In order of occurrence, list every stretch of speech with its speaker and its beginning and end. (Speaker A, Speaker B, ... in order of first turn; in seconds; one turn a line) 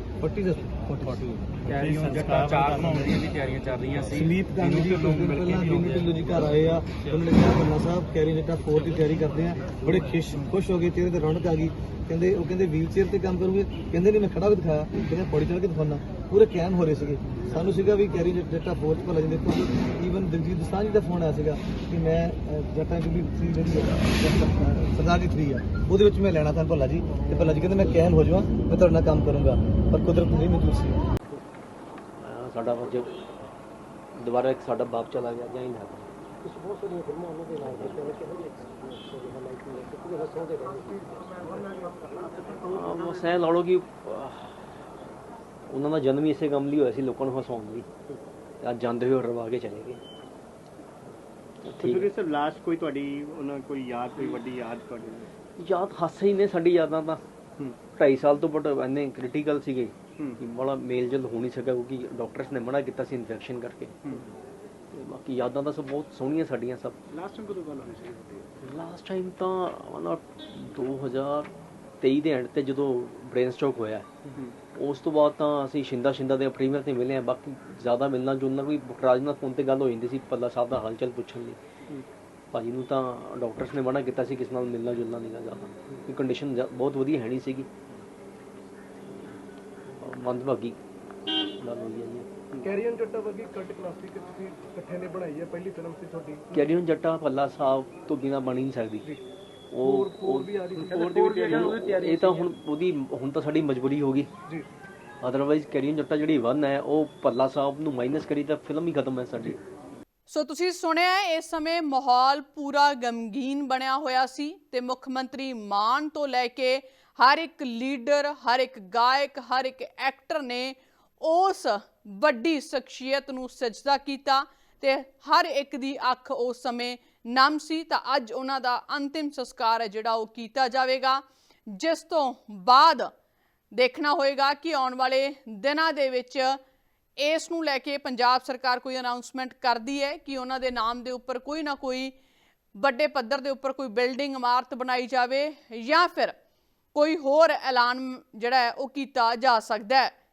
Speaker A: 0.2-1.3
Speaker B: 1.1-6.5
Speaker A: 4.1-31.0
Speaker B: 7.0-7.4
Speaker C: 32.2-33.2
Speaker C: 34.2-38.2
Speaker C: 39.1-41.0
Speaker C: 42.6-44.6
Speaker C: 45.7-47.9
Speaker C: 48.6-50.0
Speaker C: 51.6-52.1
Speaker D: 51.8-55.2
Speaker C: 55.6-57.2
Speaker C: 57.9-64.2
Speaker C: 65.0-67.0
Speaker D: 67.1-68.4
Speaker C: 68.6-71.5
Speaker C: 72.0-74.1
Speaker C: 74.8-81.6
Speaker C: 82.5-87.7
Speaker C: 90.0-90.8
Speaker C: 91.6-92.2
Speaker D: 92.7-96.4
Speaker C: 96.5-99.1
Speaker C: 99.7-104.3
Speaker D: 99.8-102.3
Speaker C: 105.2-109.6
Speaker E: 110.3-133.1
Speaker E: 133.7-136.6
Speaker E: 137.2-142.1
Speaker E: 142.8-146.3
Speaker E: 146.9-150.1